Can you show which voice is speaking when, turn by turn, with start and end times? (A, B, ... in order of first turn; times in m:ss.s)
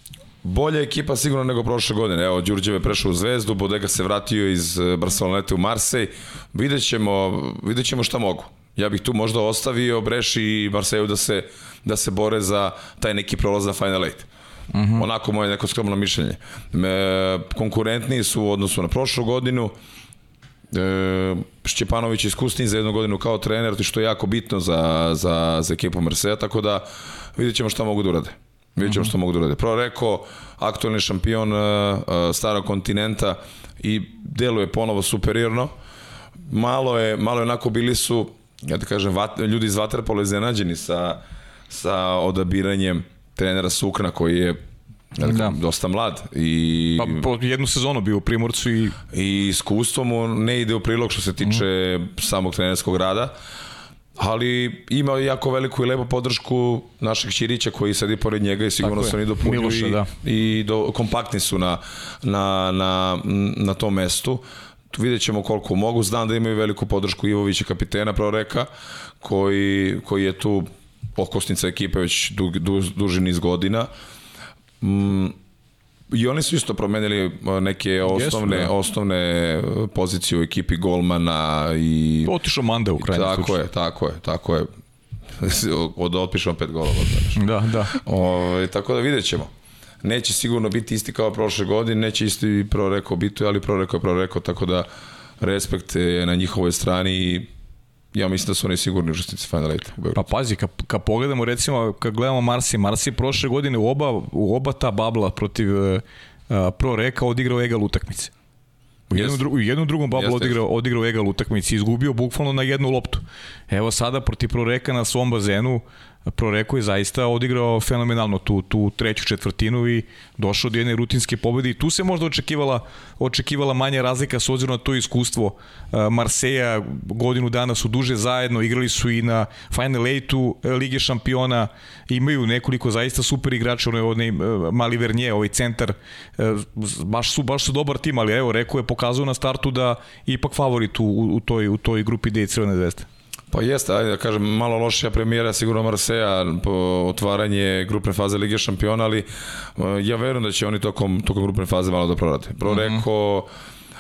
0:00.4-0:14.3 A
0:14.7-0:15.0 B
0:14.9-0:19.7 A
0:20.7-0:35.7 A
0:28.8-0:29.1 B
0:36.5-0:44.6 A
0:45.1-0:47.2 A
0:45.2-0:45.6 B
0:47.0-0:49.0 B
0:49.1-0:53.3 A
0:54.2-1:08.7 A
0:58.8-1:00.1 B
1:09.2-1:13.9 A
1:14.8-1:15.4 A
1:16.1-1:22.3 A
1:18.1-1:18.7 B
1:22.2-1:23.5 B
1:23.0-1:24.7 A
1:25.4-1:29.5 A
1:27.4-1:28.0 B
1:30.0-1:34.9 A
1:35.4-1:37.5 A
1:38.1-1:40.2 A
1:40.2-1:48.3 B
1:49.1-2:23.1 B
1:49.1-1:49.4 A
1:50.1-1:50.6 A
2:23.5-2:33.5 A
2:32.7-2:33.0 B